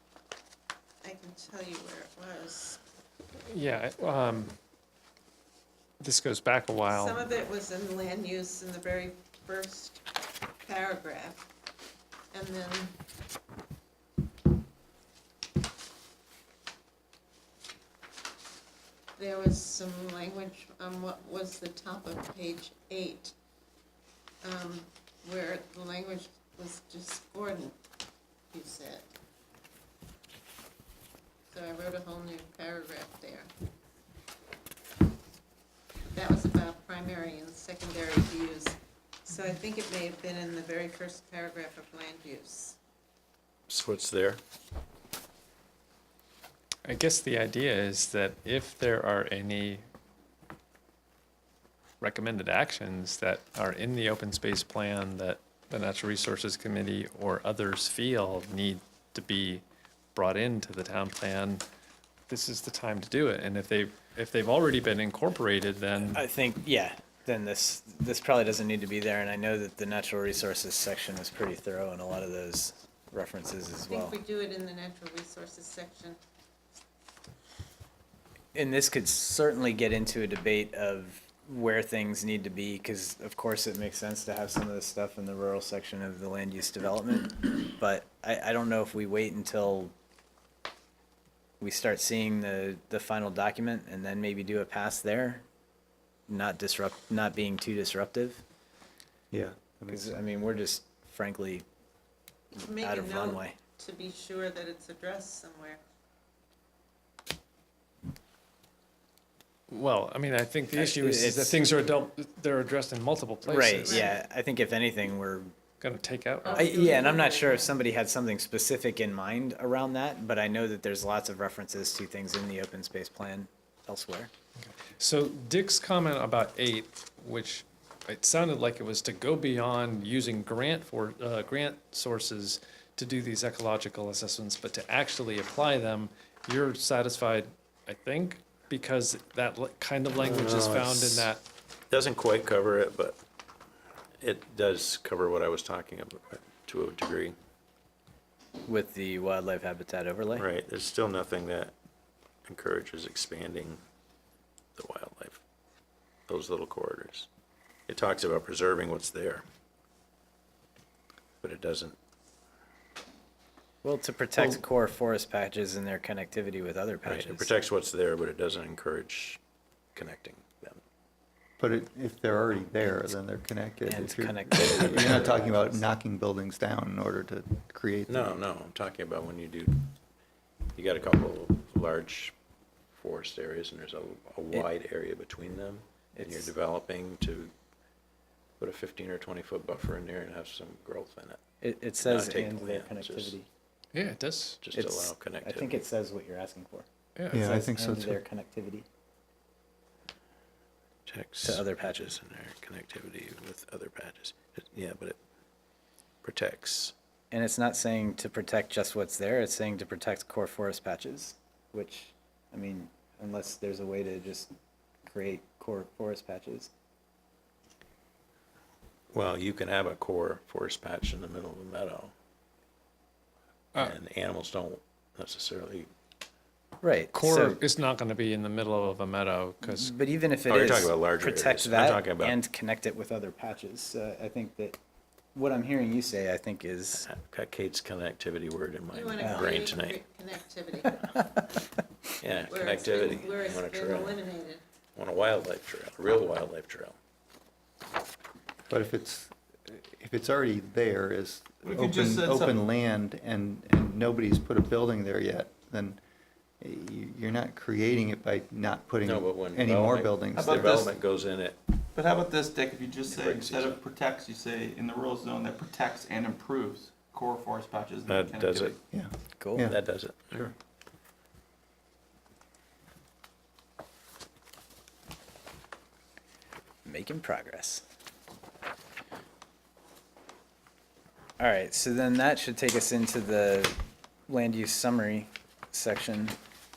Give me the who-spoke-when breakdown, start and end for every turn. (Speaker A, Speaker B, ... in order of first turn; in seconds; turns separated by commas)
Speaker A: 1.0-2.8, Speaker B: 3.5-4.5, Speaker B: 6.0-7.2, Speaker A: 6.9-10.1, Speaker A: 10.6-11.5, Speaker A: 12.3-12.9, Speaker A: 19.2-23.4, Speaker A: 24.4-27.8, Speaker A: 28.5-29.1, Speaker A: 31.5-33.5, Speaker A: 36.1-42.8, Speaker C: 43.7-44.4, Speaker B: 46.9-49.8, Speaker B: 52.0-59.6, Speaker B: 60.1-61.6, Speaker B: 62.3-66.2, Speaker D: 66.0-74.2, Speaker A: 73.9-76.2, Speaker D: 78.5-89.9, Speaker D: 91.6-95.4, Speaker D: 96.3-98.4, Speaker E: 99.3-100.2, Speaker D: 99.9-101.7, Speaker A: 102.5-105.8, Speaker D: 102.6-103.6, Speaker B: 109.7-114.1, Speaker D: 110.7-111.7, Speaker D: 113.4-115.5, Speaker A: 113.9-114.2, Speaker B: 115.8-116.9, Speaker A: 116.4-117.7, Speaker D: 116.5-124.3, Speaker B: 124.7-141.4, Speaker C: 140.2-141.3, Speaker C: 141.9-143.2, Speaker C: 144.2-147.4, Speaker D: 148.7-150.5, Speaker C: 150.4-151.7, Speaker C: 152.4-153.8, Speaker C: 154.8-155.4, Speaker C: 156.3-157.3, Speaker C: 157.9-159.5, Speaker C: 161.4-162.0, Speaker D: 163.8-167.5, Speaker E: 164.3-164.6, Speaker C: 167.1-169.4, Speaker C: 169.9-170.8, Speaker E: 171.6-178.4, Speaker D: 173.9-175.9, Speaker C: 174.6-175.0, Speaker C: 178.1-179.9, Speaker C: 180.8-182.3, Speaker C: 182.9-187.5, Speaker D: 186.2-186.5, Speaker C: 188.6-191.4, Speaker D: 191.6-193.5, Speaker C: 192.0-193.4, Speaker B: 193.9-194.6, Speaker C: 194.6-195.8, Speaker D: 194.7-198.9, Speaker B: 197.2-197.5, Speaker E: 197.3-198.2, Speaker C: 201.1-205.2, Speaker D: 201.4-202.1, Speaker C: 206.2-206.9, Speaker D: 207.3-214.5, Speaker D: 215.1-216.7, Speaker C: 219.1-222.1, Speaker C: 223.8-225.9, Speaker D: 226.8-227.6, Speaker B: 227.1-229.9, Speaker D: 229.6-234.8, Speaker C: 230.5-232.4, Speaker D: 235.3-237.1, Speaker C: 237.0-240.0, Speaker A: 238.9-241.0, Speaker D: 239.2-239.6, Speaker D: 241.0-241.5, Speaker C: 242.2-244.2, Speaker A: 242.5-244.6, Speaker C: 245.0-247.0, Speaker E: 248.7-256.0, Speaker F: 251.6-252.6, Speaker E: 256.6-260.8, Speaker C: 259.0-261.6, Speaker F: 260.3-261.0, Speaker F: 261.9-268.8, Speaker C: 263.1-263.8, Speaker C: 268.1-268.8, Speaker E: 268.9-269.8, Speaker D: 269.4-269.7, Speaker C: 269.6-270.5, Speaker D: 276.9-277.8, Speaker D: 281.4-286.4